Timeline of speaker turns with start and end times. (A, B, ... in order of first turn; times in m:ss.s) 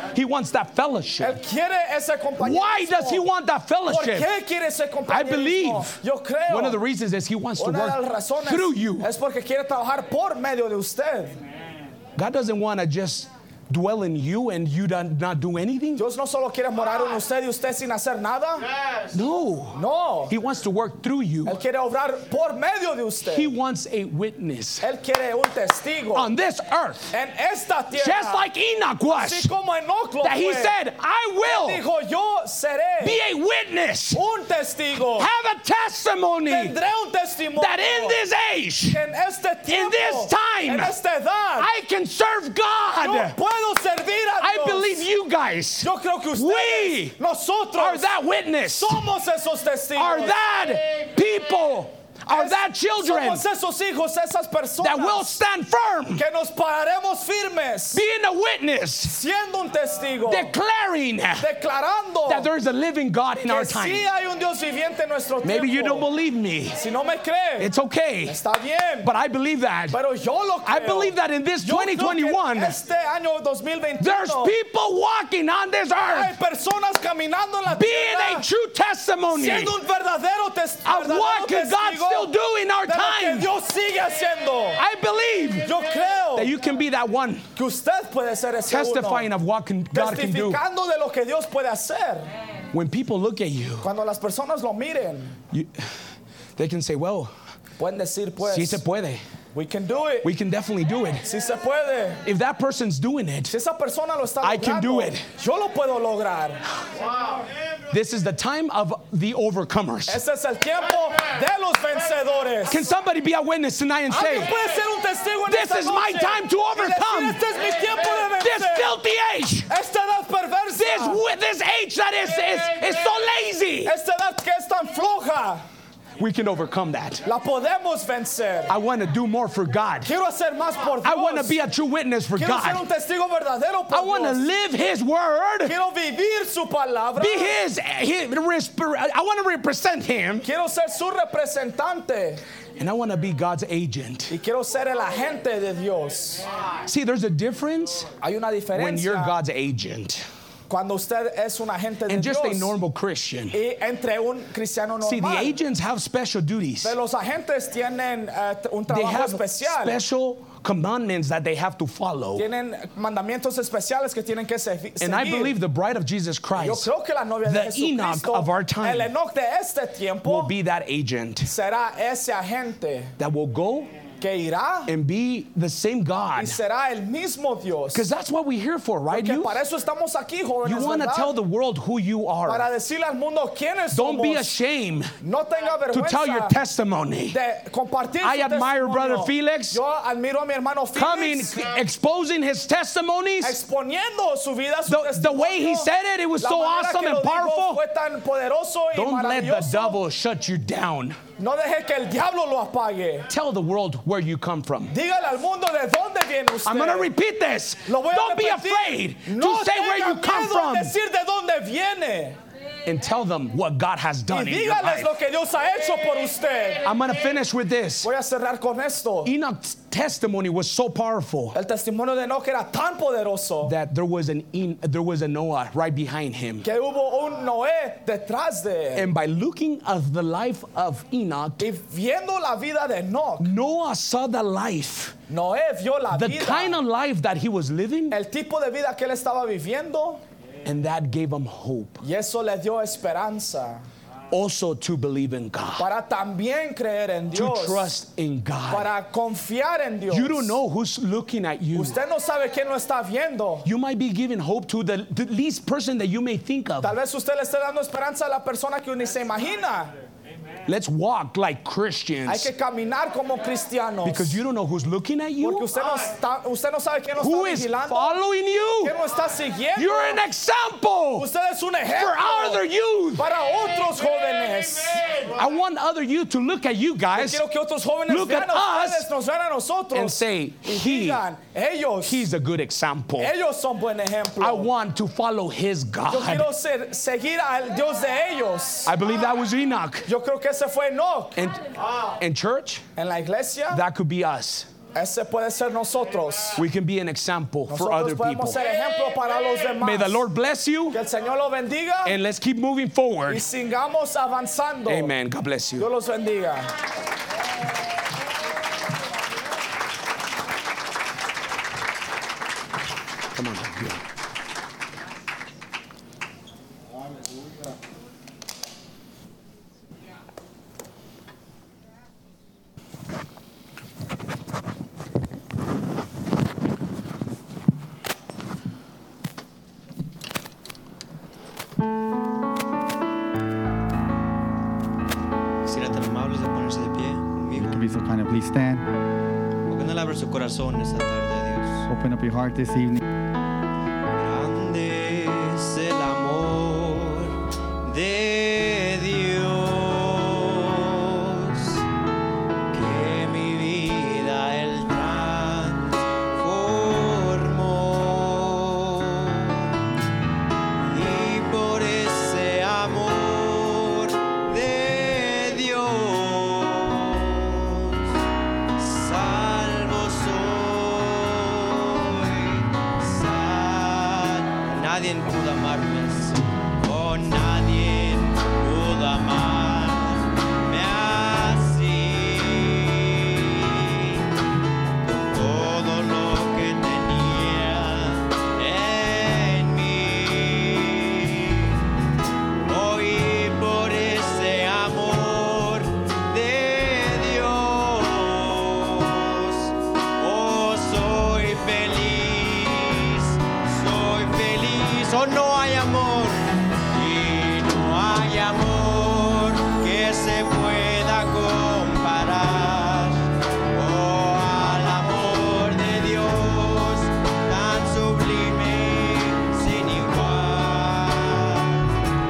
0:00.1-0:01.4 A
0:01.2-0:03.3 B
0:02.4-0:04.3 A
0:03.8-0:06.8 B
0:05.1-0:09.1 A
0:07.6-0:11.4 B
0:12.2-0:16.0 A
0:16.0-0:18.7 B
0:19.1-0:21.6 A
0:19.7-0:20.3 B
0:21.4-0:23.5 B
0:23.2-0:24.8 A
0:24.8-0:26.3 B
0:26.1-0:27.1 A
0:27.1-0:28.4 B
0:27.9-0:29.5 A
0:29.1-0:30.8 B
0:30.2-0:31.8 A
0:31.4-0:33.2 B
0:33.0-0:34.2 A
0:34.1-0:35.3 B
0:35.1-0:36.8 A
0:36.5-0:38.2 B
0:37.6-0:39.0 A
0:38.9-0:41.7 B
0:39.7-0:41.0 A
0:41.6-0:43.3 A
0:43.0-0:45.1 B
0:44.4-0:47.2 A
0:45.8-0:48.1 B
0:47.8-0:49.0 A
0:48.6-0:50.4 B
0:50.0-0:53.4 A
0:52.3-0:55.4 B
0:54.8-0:56.2 A
0:56.2-0:58.0 B
0:57.9-0:59.2 A
0:59.0-1:00.5 B
1:00.3-1:01.5 A
1:01.4-1:02.5 B
1:02.2-1:04.0 A
1:03.4-1:06.1 B
1:05.4-1:06.8 A
1:06.7-1:07.7 B
1:07.6-1:08.4 A
1:08.2-1:09.1 B
1:09.0-1:10.0 A
1:09.9-1:14.5 B
1:10.6-1:12.8 A
1:14.0-1:16.3 A
1:16.1-1:18.5 B
1:17.7-1:19.8 A
1:19.3-1:22.3 B
1:20.8-1:23.5 A
1:22.8-1:24.8 B
1:24.8-1:25.8 A
1:25.6-1:26.5 B
1:26.3-1:27.4 A
1:27.5-1:29.3 B
1:28.7-1:30.6 A
1:29.9-1:32.3 B
1:32.7-1:33.9 A
1:33.8-1:35.4 B
1:36.6-1:37.3 A
1:37.8-1:38.8 B
1:38.4-1:39.2 A
1:39.5-1:40.3 B
1:40.2-1:41.2 A
1:41.2-1:42.2 B
1:42.2-1:43.5 A
1:43.5-1:46.6 B
1:44.4-1:45.3 A
1:47.9-1:50.2 A
1:50.0-1:52.8 B
1:52.6-1:54.6 A
1:54.1-1:59.0 B
1:55.5-1:57.4 A
1:58.0-1:59.7 A
1:59.7-2:01.2 B
2:00.7-2:04.0 A
2:03.8-2:05.6 B
2:06.2-2:07.2 A
2:07.2-2:08.7 B
2:08.7-2:10.1 A
2:10.0-2:11.6 B
2:11.0-2:12.8 A
2:12.3-2:14.5 B
2:13.9-2:15.8 A
2:15.6-2:17.6 B
2:17.2-2:20.5 A
2:20.4-2:22.4 B
2:22.8-2:24.4 A
2:24.3-2:26.4 B
2:26.8-2:28.1 A
2:28.2-2:29.4 B
2:28.7-2:30.2 A
2:30.7-2:32.7 B
2:32.1-2:33.6 A
2:33.5-2:35.6 B
2:35.0-2:37.0 A
2:36.8-2:40.0 B
2:38.9-2:42.4 A
2:42.4-2:45.6 B
2:45.0-2:46.9 A
2:46.5-2:50.5 B
2:47.4-2:49.1 A
2:50.2-2:51.5 A
2:51.4-2:53.1 B
2:53.2-2:53.9 A
2:54.2-2:54.9 B
2:54.9-2:56.6 A
2:56.4-2:58.1 B
2:57.9-2:59.6 A
2:59.1-3:01.4 B
3:00.6-3:02.7 A
3:02.4-3:04.5 B
3:03.9-3:05.1 A
3:05.2-3:06.6 B
3:05.9-3:07.4 A
3:07.3-3:11.7 B
3:08.2-3:09.8 A
3:10.9-3:13.6 A
3:13.4-3:20.0 B
3:14.9-3:17.8 A
3:18.9-3:21.2 A
3:21.4-3:23.3 B
3:23.3-3:25.0 A
3:24.9-3:27.1 B
3:26.6-3:31.0 A
3:27.8-3:32.4 B
3:32.8-3:35.1 A
3:34.3-3:36.8 B
3:36.8-3:38.1 A
3:38.0-3:39.3 B
3:39.2-3:41.6 A
3:41.5-3:43.7 B
3:43.6-3:46.7 A
3:46.6-3:49.1 B
3:48.9-3:51.7 A
3:51.6-3:53.5 B
3:53.4-3:55.2 A
3:55.3-3:56.8 B
3:56.1-3:58.2 A
3:58.1-4:00.2 B
4:00.6-4:02.0 A
4:02.0-4:03.8 B
4:04.3-4:05.9 A
4:05.8-4:07.9 B
4:07.3-4:08.9 A
4:08.7-4:10.6 B
4:10.1-4:12.0 A
4:11.7-4:13.7 B
4:13.6-4:16.9 A
4:16.8-4:19.9 B
4:20.6-4:22.5 A
4:22.2-4:24.4 B
4:24.0-4:25.8 A
4:25.4-4:28.2 B
4:27.2-4:29.0 A
4:28.8-4:30.2 B
4:29.8-4:31.3 A
4:31.2-4:32.6 B
4:31.8-4:33.3 A
4:33.1-4:35.0 B
4:35.3-4:37.4 A
4:37.1-4:42.3 B
4:38.1-4:39.1 A
4:39.9-4:41.2 A
4:42.0-4:43.3 A
4:43.2-4:44.7 B
4:44.4-4:46.5 A
4:46.0-4:48.9 B
4:48.8-4:50.1 A
4:50.1-4:51.4 B
4:51.4-4:52.8 A
4:53.0-4:53.8 B
4:53.7-4:54.7 A
4:54.9-4:56.6 B
4:56.5-4:58.6 A
4:57.7-5:00.2 B
4:59.8-5:01.0 A
5:00.9-5:02.2 B
5:02.0-5:03.4 A
5:03.3-5:05.1 B
5:04.8-5:05.9 A
5:05.8-5:06.7 B
5:13.3-5:14.0 A
5:35.7-5:37.8 C
5:37.6-5:38.9 D
5:39.7-5:41.8 C
5:41.9-5:43.0 D
5:44.2-5:51.8 C
5:52.7-5:59.7 C
6:00.8-6:08.1 C
6:08.8-6:24.3 C
6:25.0-6:31.8 C
6:32.6-7:01.9 C